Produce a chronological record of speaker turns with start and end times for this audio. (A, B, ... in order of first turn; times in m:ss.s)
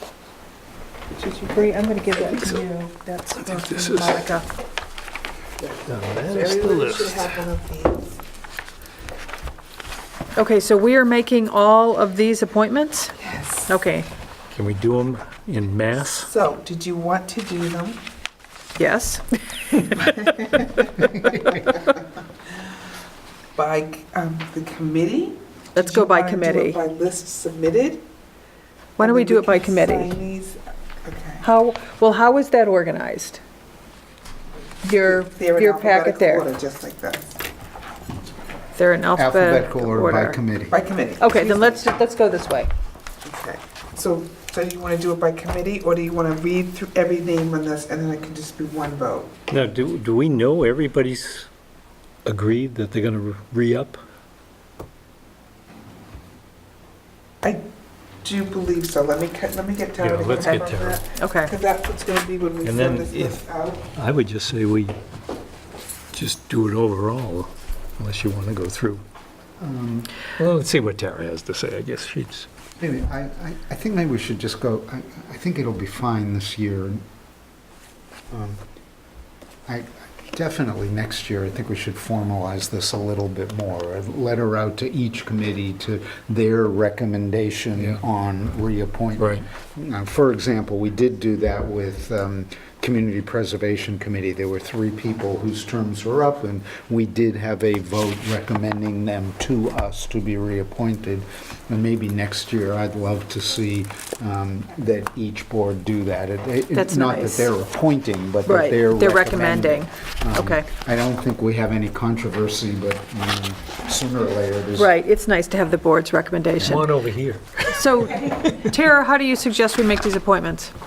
0:01.1-0:02.6 A
0:01.5-0:04.5 B
0:03.4-0:04.2 C
0:03.4-0:04.2 A
0:05.6-0:08.2 A
0:05.9-0:07.3 C
0:10.4-0:13.2 B
0:13.2-0:13.7 A
0:13.7-0:14.1 B
0:14.5-0:16.3 C
0:16.2-0:18.0 A
0:18.8-0:20.0 B
0:23.5-0:28.0 A
0:25.7-0:26.8 B
0:29.0-0:30.2 B
0:29.0-0:31.4 A
0:31.4-0:33.4 B
0:34.8-0:36.5 B
0:35.0-0:37.3 A
0:38.8-0:40.4 B
0:39.1-0:40.8 D
0:40.7-0:41.9 A
0:41.2-0:42.7 B
0:43.2-0:49.3 A
0:49.5-0:51.5 C
0:52.2-0:54.0 C
0:58.2-1:03.8 A
1:00.0-1:01.0 C
1:01.2-1:01.5 B
1:02.6-1:03.4 C
1:03.9-1:05.0 C
1:06.1-1:09.0 C
1:09.6-1:10.1 D
1:10.4-1:12.5 C
1:12.8-1:17.0 D
1:18.3-1:18.6 D
1:19.7-1:54.9 D
1:46.7-1:47.5 B
1:48.4-1:50.7 B
1:54.8-1:56.9 B
1:56.6-1:57.7 C
1:57.7-2:00.7 B